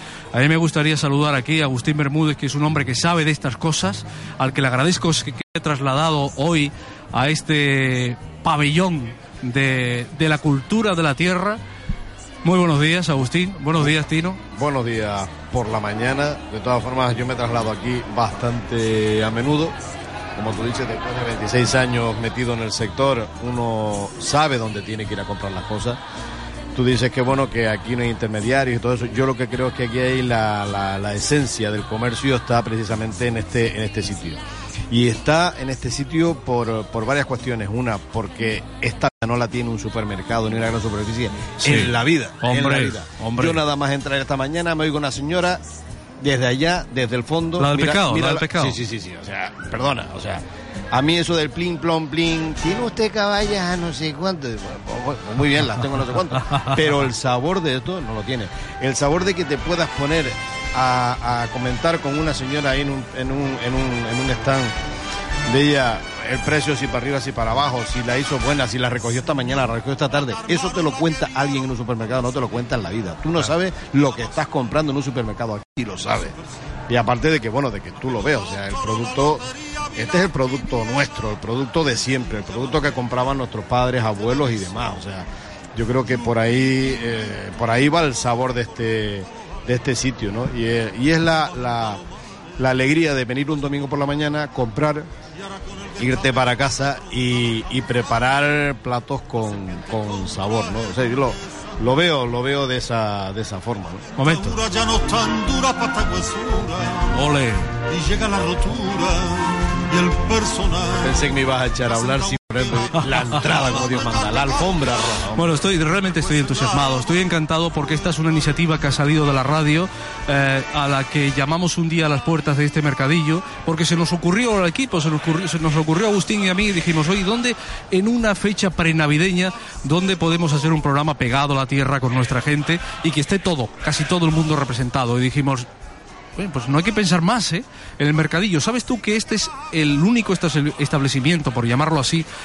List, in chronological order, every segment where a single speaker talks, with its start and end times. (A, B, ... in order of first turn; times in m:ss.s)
0:00.3-0:11.6 A
0:12.4-0:14.4 A
0:14.5-0:19.8 B
0:20.4-0:26.0 B
0:26.7-0:45.6 B
0:41.6-0:43.6 A
0:46.2-1:04.7 B
0:47.6-0:48.8 A
0:56.5-0:56.8 A
1:05.4-1:16.3 B
1:16.9-1:32.0 B
1:32.6-1:35.1 B
1:36.0-1:44.0 B
1:44.2-1:44.6 A
1:44.2-1:47.1 C
1:47.1-1:47.7 A
1:47.9-1:51.4 C
1:51.0-1:55.5 B
1:51.9-1:52.4 C
1:53.1-1:53.8 A
1:53.8-1:54.7 C
1:55.4-2:15.7 A
1:56.2-1:57.1 C
2:16.4-2:22.2 A